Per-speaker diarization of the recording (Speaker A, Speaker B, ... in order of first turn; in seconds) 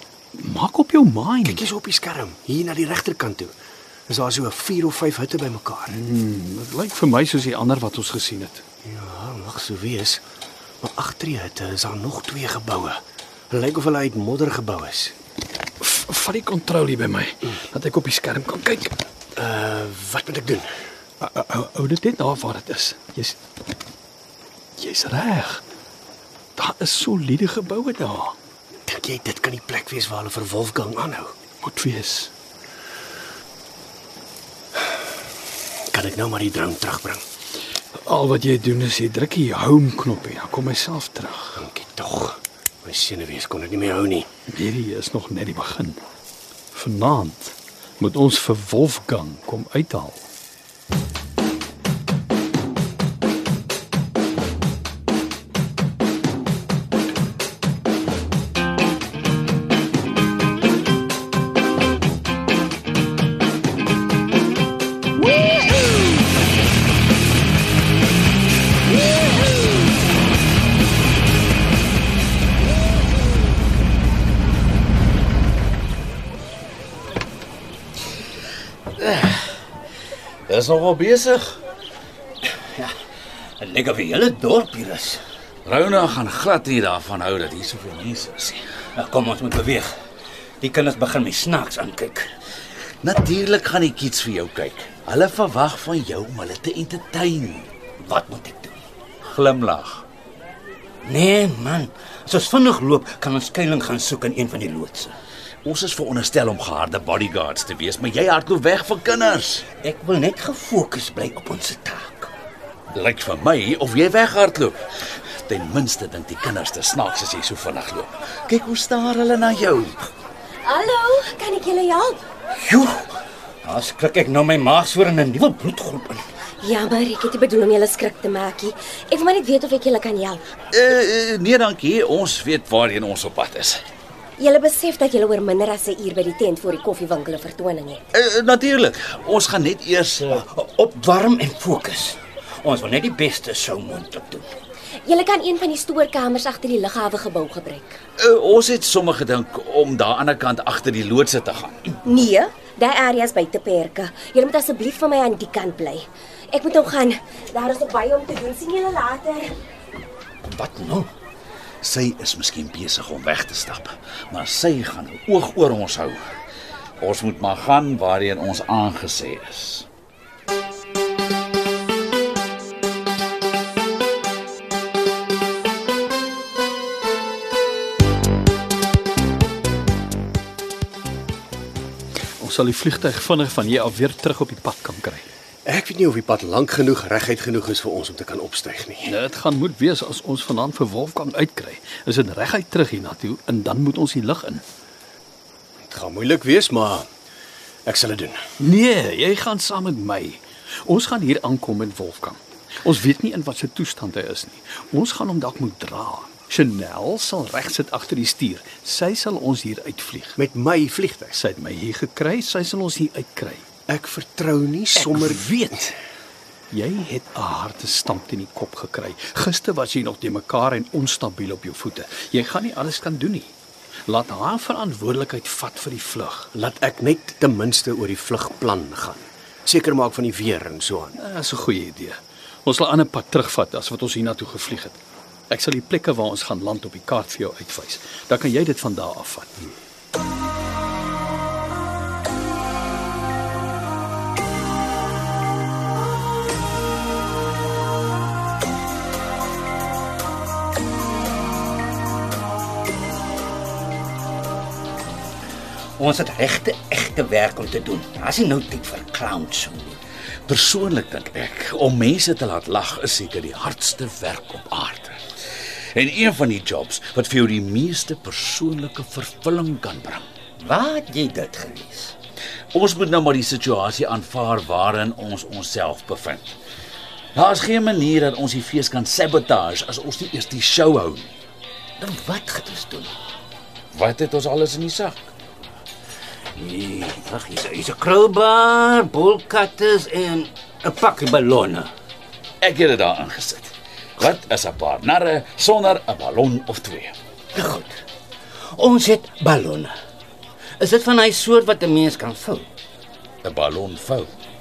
Speaker A: 0.3-1.6, 5.9-8.6, 15.8-19.0, 21.2-23.4, 24.8-25.6, 26.6-28.3, 31.6-32.3, 38.0-41.6, 44.5-46.0, 46.7-50.2, 182.4-185.2, 189.1-194.6, 198.6-210.4, 211.3-213.6, 214.9-215.9, 216.7-223.5, 224.1-226.5, 231.2-235.0, 235.5-239.7
Speaker B: 1.4-3.5, 4.1-6.0, 8.8-10.2, 10.8-13.0, 13.5-15.1, 19.4-20.7, 28.9-31.3, 35.9-37.2, 41.6-44.3, 185.7-189.1, 195.8-197.1, 197.8-198.4, 210.4-211.4, 213.9-215.8, 226.5-231.2
Speaker C: 79.0-79.6, 80.5-81.6, 85.7-88.6, 93.0-97.7, 99.2-100.0, 105.6-109.6, 112.9-120.0, 130.7-133.8, 138.1-140.4, 148.2-151.8, 161.8-166.2, 167.0-169.9, 260.5-265.2, 265.9-270.2, 272.7-276.6, 277.3-281.3, 283.9-285.3, 292.6-297.1, 303.4-304.3
Speaker D: 82.6-82.9, 83.6-85.2, 89.0-89.9, 90.6-92.3, 98.0-98.8, 101.0-105.1, 109.8-112.3, 122.6-123.1, 123.6-126.2, 140.3-144.5, 160.4-161.1, 256.0-260.0, 270.6-272.1, 282.0-283.1, 286.6-291.9, 297.5-298.0, 298.7-299.9, 300.8-302.7
Speaker E: 120.6-122.2, 126.6-130.4, 134.4-138.0, 145.1-147.9, 152.0-159.5